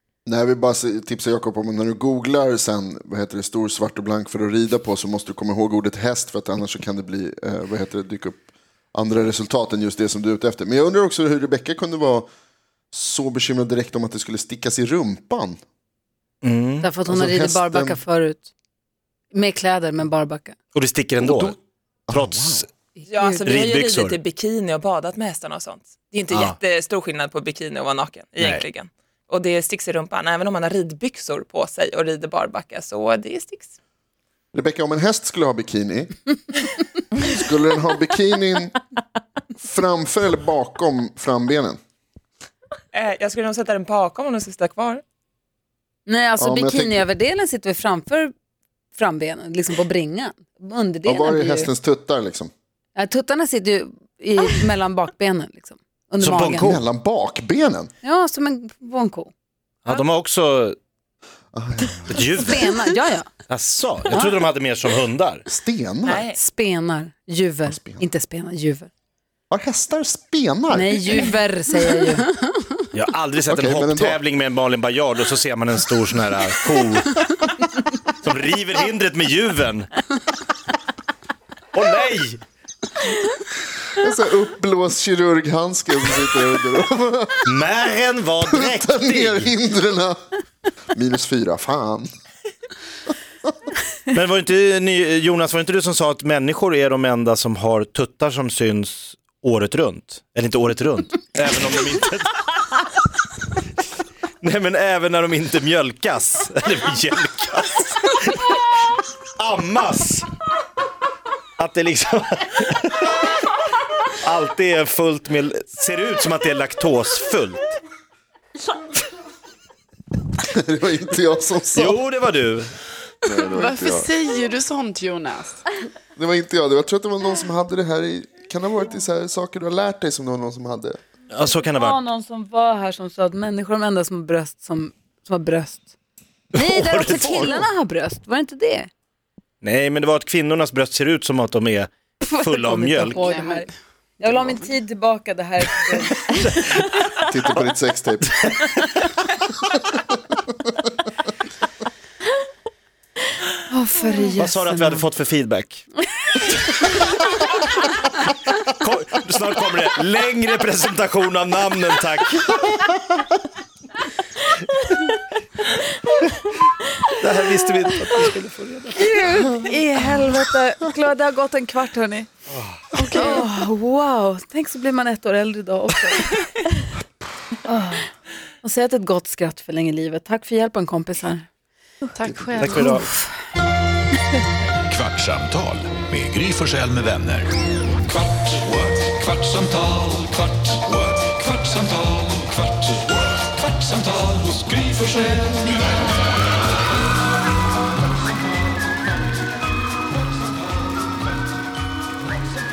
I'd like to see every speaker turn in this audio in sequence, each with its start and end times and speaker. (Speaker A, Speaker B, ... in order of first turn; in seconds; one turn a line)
Speaker A: 0.3-8.4
Speaker A: 8.9-12.3
Speaker A: 12.9-15.6
Speaker B: 16.4-16.9
Speaker C: 16.8-18.5
Speaker A: 17.1-18.0
Speaker C: 19.3-20.6
Speaker B: 20.7-21.6
Speaker A: 21.2-21.6
Speaker A: 22.1-22.7
Speaker B: 22.1-22.7
Speaker D: 23.1-33.7
Speaker C: 23.1-23.4
Speaker B: 23.4-24.2
Speaker B: 26.3-26.6
Speaker A: 34.5-36.3
Speaker A: 37.1-38.8
Speaker A: 39.6-41.8
Speaker D: 42.9-45.0
Speaker C: 46.1-48.3
Speaker A: 46.4-47.0
Speaker C: 49.0-51.7
Speaker A: 51.0-52.5
Speaker C: 53.0-56.8
Speaker B: 56.2-56.8
Speaker A: 56.6-57.9
Speaker C: 58.0-59.3
Speaker B: 59.9-60.8
Speaker A: 61.5-62.2
Speaker B: 62.1-62.8
Speaker C: 62.4-63.3
Speaker B: 63.5-65.4
Speaker A: 65.5-66.3
Speaker D: 66.0-66.4
Speaker C: 66.4-68.9
Speaker A: 67.7-68.0
Speaker A: 69.5-71.3
Speaker C: 70.7-72.3
Speaker E: 72.4-72.8
Speaker B: 72.9-77.3
Speaker A: 73.5-74.2
Speaker B: 78.1-79.9
Speaker B: 81.7-82.4
Speaker A: 83.9-87.5
Speaker B: 87.5-89.5
Speaker A: 88.5-90.2
Speaker A: 90.9-92.1
Speaker B: 94.1-102.8
Speaker B: 104.4-108.6
Speaker B: 109.4-110.3
Speaker B: 111.6-113.3
Speaker B: 114.1-117.8
Speaker A: 120.4-122.0
Speaker B: 121.8-122.7
Speaker A: 123.2-124.1
Speaker E: 123.4-125.7
Speaker A: 126.2-131.0
Speaker B: 131.3-132.0
Speaker C: 131.4-135.9
Speaker B: 136.5-137.7
Speaker C: 136.6-138.9
Speaker B: 139.6-143.2
Speaker C: 142.2-143.7
Speaker E: 143.1-143.7
Speaker C: 144.2-146.8
Speaker B: 146.3-146.9
Speaker A: 147.2-148.5
Speaker B: 148.4-149.1
Speaker C: 153.7-155.1
Speaker B: 154.4-155.8
Speaker B: 158.3-162.8
Speaker B: 167.1-169.1
Speaker C: 168.9-172.3
Speaker B: 172.5-173.3
Speaker C: 173.0-176.5
Speaker E: 173.0-173.4
Speaker C: 177.7-178.1
Speaker C: 178.6-181.5
Speaker E: 182.2-183.0
Speaker B: 182.6-183.1
Speaker C: 182.7-183.2
Speaker F: 184.9-187.5
Speaker F: 188.2-193.0
Speaker F: 193.6-195.8